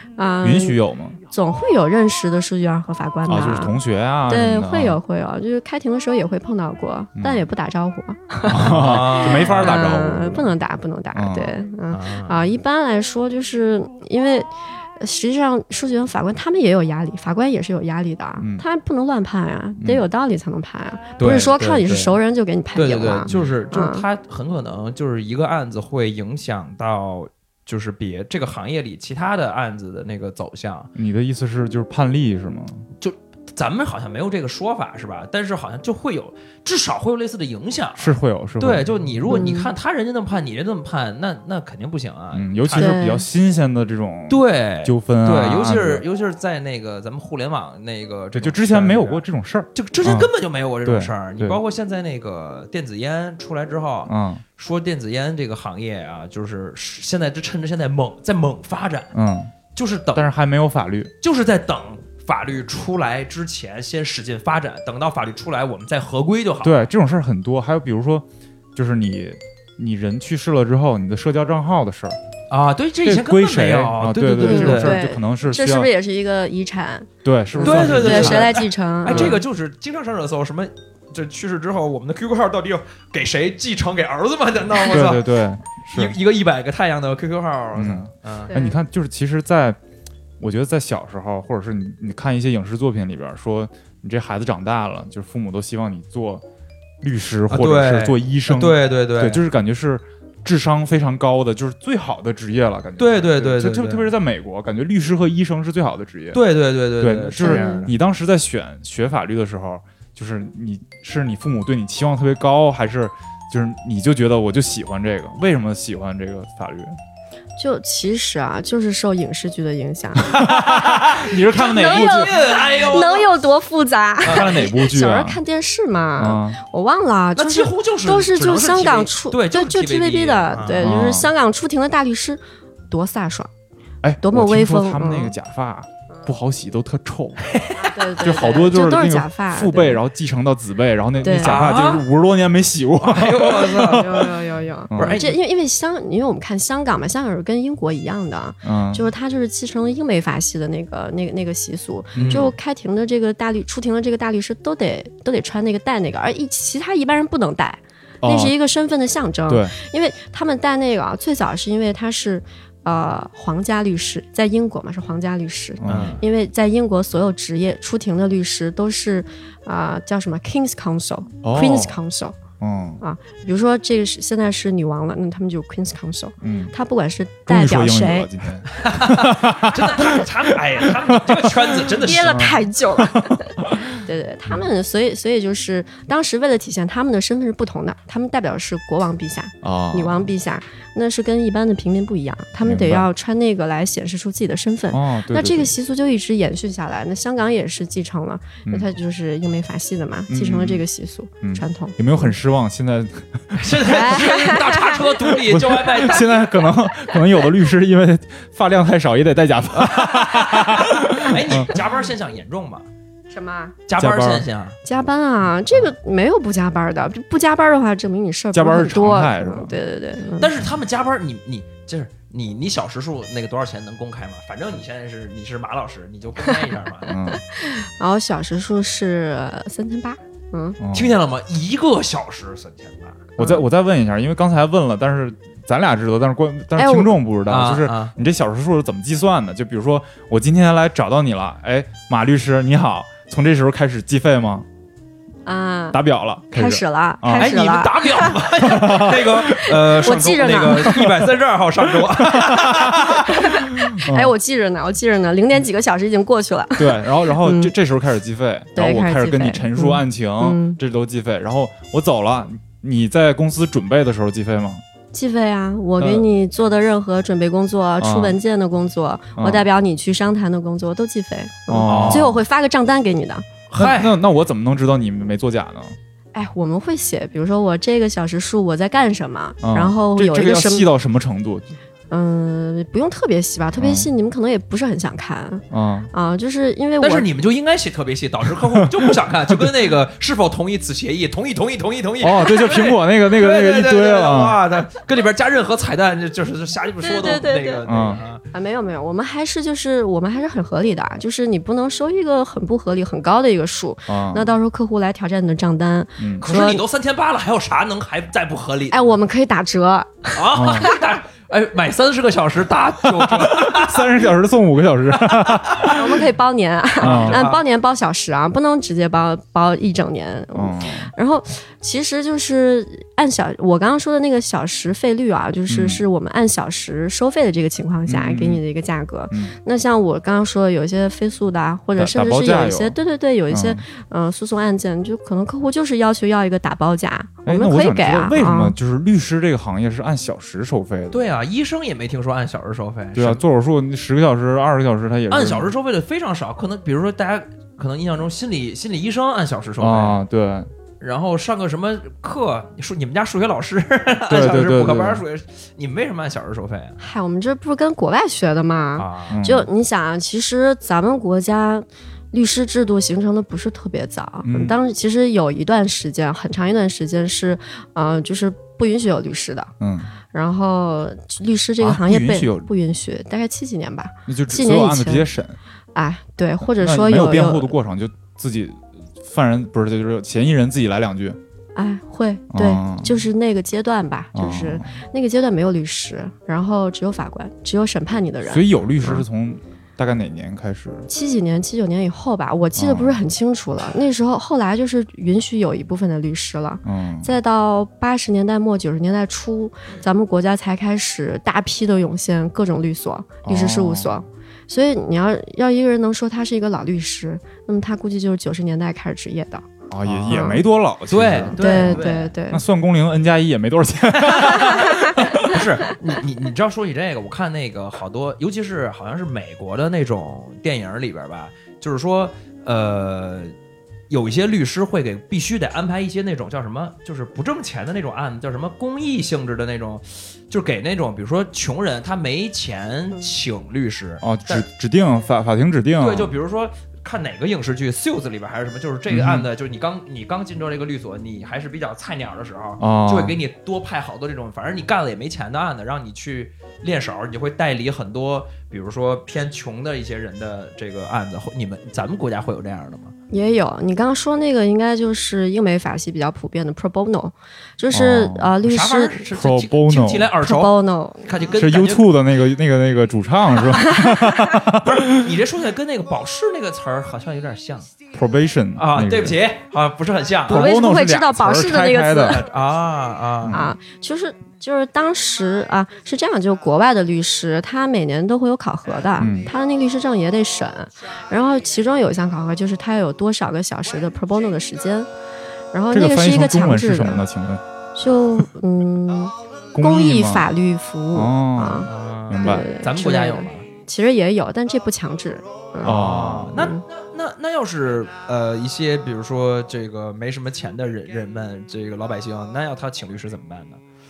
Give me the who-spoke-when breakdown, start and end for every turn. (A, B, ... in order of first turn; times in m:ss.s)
0:00.2-0:00.8 A
0:00.4-0:01.2 B
0:01.3-0:03.7 A
0:03.3-0:05.0 B
0:04.3-0:24.0 A
0:07.2-0:07.4 B
0:08.5-0:10.5 B
0:08.5-0:09.8 C
0:11.1-0:11.5 B
0:11.9-0:12.5 C
0:18.4-0:18.6 B
0:21.2-0:22.2 C
0:22.7-0:30.9 C
0:23.3-0:23.5 B
0:30.9-0:32.8 B
0:33.0-0:43.0 C
0:38.0-0:39.3 B
0:39.3-0:39.7 A
0:42.3-0:46.0 B
0:42.8-0:43.2 A
0:44.3-0:49.2 C
0:48.3-0:50.3 B
0:49.7-0:59.1 C
0:50.8-0:51.6 B
0:54.1-0:54.4 B
0:59.1-0:59.5 B
0:59.7-1:00.3 C
1:00.1-1:01.1 B
1:01.2-1:06.8 C
1:06.6-1:12.2 B
1:12.5-1:15.0 C
1:13.0-1:15.9 B
1:14.4-1:19.4 A
1:17.2-1:18.6 B
1:17.6-1:25.3 C
1:19.1-1:19.4 B
1:24.9-1:26.2 B
1:25.8-1:28.5 C
1:27.7-1:29.8 B
1:28.5-1:28.8 A
1:30.4-1:36.4 B
1:37.0-1:46.4 B
1:37.5-1:39.4 C
1:43.0-1:44.1 C
1:46.3-1:47.9 C
1:47.0-1:57.0 B
1:47.4-1:47.9 A
1:57.6-2:00.4 A
2:00.2-2:02.3 B
2:00.4-2:03.3 C
2:01.5-2:13.5 A
2:04.2-2:04.7 C
2:04.2-2:05.4 B
2:06.2-2:06.6 B
2:07.4-2:10.9 C
2:10.8-2:11.3 B
2:14.0-2:17.6 B
2:14.2-2:15.3 A
2:17.4-2:18.0 C
2:17.8-2:20.0 A
2:18.2-2:24.2 B
2:21.2-2:21.6 A
2:21.3-2:22.0 C
2:23.0-2:24.3 C
2:23.7-2:52.4 A
2:24.9-2:25.2 B
2:24.9-2:25.4 C
2:28.6-2:29.1 B
2:32.1-2:32.5 B
2:32.2-2:32.5 C
2:38.2-2:38.5 B
2:39.5-2:39.7 B
2:45.8-2:46.2 B
2:45.8-2:46.2 C
2:51.4-2:52.0 B
2:52.6-2:53.0 B
2:53.0-2:58.3 A
2:56.4-2:56.7 B
2:57.5-3:03.9 B
2:58.7-3:02.5 C
3:02.0-3:22.0 A
3:09.6-3:10.3 B
3:12.6-3:13.1 B
3:14.9-3:15.7 B
3:18.6-3:18.9 B
3:20.3-3:20.8 B
3:21.4-3:24.0 B
3:23.5-3:26.4 C
3:23.8-3:25.0 A
3:25.3-3:31.8 B
3:29.8-3:32.8 C
3:33.3-3:33.8 A
3:33.9-3:34.8 C
3:34.0-3:34.5 B
3:34.8-3:40.5 A
3:38.5-3:39.8 B
3:40.4-3:47.1 C
3:47.1-3:47.4 B
3:47.2-3:50.8 A
3:50.8-3:51.2 B
3:50.9-3:53.3 C
3:53.4-3:53.6 A
3:53.4-4:04.6 B
3:56.8-3:57.2 A
3:57.5-3:58.1 C
4:05.4-4:06.0 A
4:05.9-4:07.6 B
4:06.5-4:11.0 A
4:07.3-4:13.4 C
4:08.6-4:09.9 B
4:10.9-4:11.2 B
4:12.0-4:14.3 B
4:13.2-4:17.7 A
4:16.8-4:24.8 B
4:18.7-4:20.8 A
4:25.1-4:33.5 A
4:26.0-4:26.2 B
4:28.0-4:28.4 B
4:29.4-4:29.6 B
4:31.7-4:32.4 B
4:31.9-4:32.4 C
4:33.7-4:34.2 C
4:33.8-4:36.0 B
4:36.3-4:40.9 A
4:39.6-4:41.7 B
4:42.1-4:47.3 A
4:43.8-4:44.1 B
4:45.7-4:46.1 B
4:47.0-4:58.4 C
4:48.8-4:49.7 B
4:52.2-4:54.6 B
4:57.0-4:57.8 A
4:57.8-4:58.2 B
4:58.5-5:06.8 A
5:04.1-5:04.5 B
5:06.2-5:06.5 B
5:06.4-5:09.2 C
5:08.9-5:11.0 A
5:10.3-5:14.3 C
5:10.5-5:10.9 B
5:13.2-5:15.9 B
5:15.1-5:16.0 C
5:15.9-5:38.7 A
5:17.0-5:17.6 C
5:17.0-5:17.5 B
5:20.5-5:21.1 B
5:25.7-5:26.0 B
5:28.1-5:28.6 B
5:29.3-5:29.6 B
5:32.0-5:33.0 B
5:33.5-5:33.8 B
5:37.4-5:41.2 B
5:41.1-5:43.4 C
5:43.1-5:45.7 B
5:45.3-5:50.2 C
5:49.8-5:50.7 B
5:51.0-5:57.0 C
5:54.3-5:55.2 B
5:57.0-6:09.7 A
5:59.0-5:59.4 C
5:59.3-5:59.7 B
6:04.4-6:04.8 B
6:09.8-6:10.1 B
6:10.3-6:15.3 A
6:11.8-6:12.7 B
6:14.3-6:15.6 B
6:15.9-6:17.7 A
6:16.8-6:21.4 B
6:21.7-6:29.2 A
6:22.5-6:23.2 B
6:24.3-6:24.9 B
6:28.4-6:31.1 B
6:31.1-6:49.7 A
6:32.8-6:33.2 B
6:36.8-6:37.3 B
6:43.4-6:44.1 B
6:49.9-6:55.6 B
6:50.0-6:50.5 C
6:50.3-6:50.6 A
6:51.1-6:52.3 C
6:51.6-6:52.6 A
6:54.6-6:55.2 A
6:55.4-7:03.5 C
7:04.1-7:14.6 C
7:14.2-7:16.3 B
7:16.0-7:33.1 C
7:19.1-7:19.5 B
7:22.8-7:23.4 B
7:33.3-7:39.2 A
7:37.9-7:38.5 B
7:38.6-7:42.1 C
7:39.3-7:40.3 B
7:40.4-7:41.3 A
7:41.5-7:45.3 B
7:43.8-7:44.6 A
7:44.8-7:47.9 C
7:48.1-7:49.4 B
7:48.8-7:50.7 C
7:50.5-7:52.4 B
7:50.5-7:52.4 A
7:52.3-7:53.6 C
7:53.4-7:53.8 B
7:53.5-8:05.1 A
7:59.2-7:59.5 B
8:05.7-8:07.2 A
8:05.9-8:07.6 B
8:07.9-8:16.0 A
8:09.7-8:10.5 B
8:11.1-8:12.7 B
8:11.9-8:13.6 C
8:15.8-8:16.6 B
8:15.8-8:23.8 C
8:16.5-8:16.8 A